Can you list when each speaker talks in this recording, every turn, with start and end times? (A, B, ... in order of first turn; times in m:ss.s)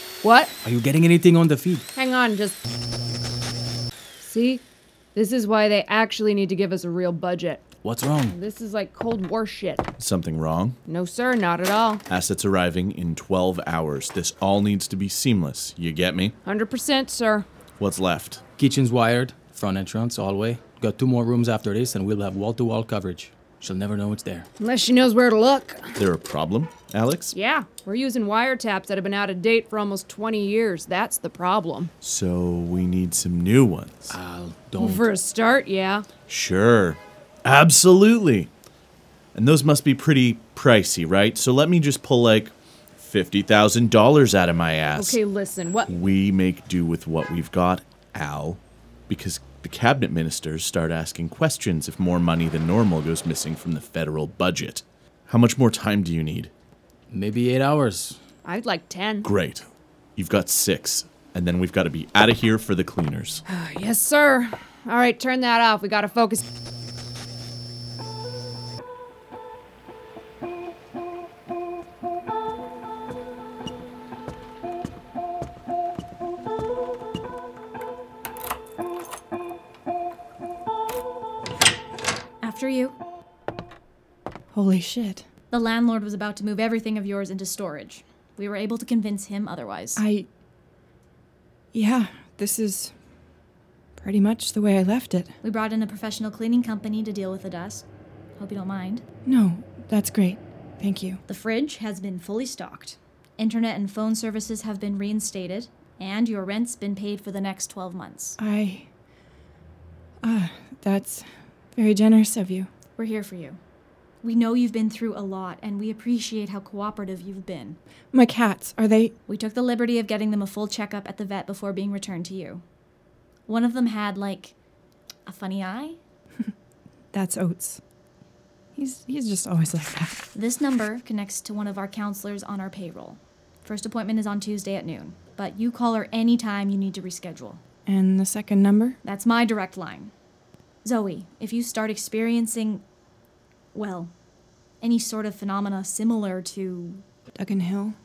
0:00.2-0:00.5 A
0:00.6-0:01.9 B
0:02.1-0:02.5 A
0:04.3-0:04.6 A
0:05.2-0:07.6 A
0:07.7-0:08.4 B
0:08.9-0:09.7 A
0:10.0-0:10.8 C
0:11.0-0:11.9 A
0:12.1-0:16.3 C
0:16.7-0:17.4 A
0:17.8-0:18.4 C
0:18.6-0:24.5 B
0:24.8-0:25.8 A
0:26.0-0:27.3 C
0:27.5-0:31.8 A
0:32.0-0:34.2 C
0:34.1-0:35.1 B
0:35.1-0:36.0 A
0:36.3-0:38.5 C
0:39.3-0:45.2 C
0:45.3-0:45.9 A
0:45.9-0:56.5 C
0:57.1-0:58.2 B
0:58.6-0:59.1 A
0:59.2-0:59.7 C
1:00.2-1:03.4 C
1:03.6-1:06.4 A
1:22.4-1:23.0 D
1:24.5-1:25.2 E
1:25.5-1:30.0 D
1:30.0-1:30.3 E
1:31.7-1:32.9 E
1:34.0-1:35.3 E
1:35.4-1:37.8 D
1:38.4-1:39.0 D
1:39.2-1:41.2 E
1:41.3-1:48.4 D
1:48.4-1:48.9 E
1:50.2-1:52.7 E
1:53.0-1:53.6 D
1:54.2-1:57.8 D
1:58.1-1:59.1 E
1:59.3-2:02.6 D
2:03.5-2:04.6 D
2:05.3-2:06.0 D
2:07.1-2:07.8 E
2:08.8-2:10.3 E
2:10.4-2:17.6 D
2:17.9-2:19.0 E
2:19.0-2:20.1 D
2:20.8-2:22.8 D
2:23.8-2:24.1 D
2:24.8-2:27.0 D
2:27.4-2:27.9 E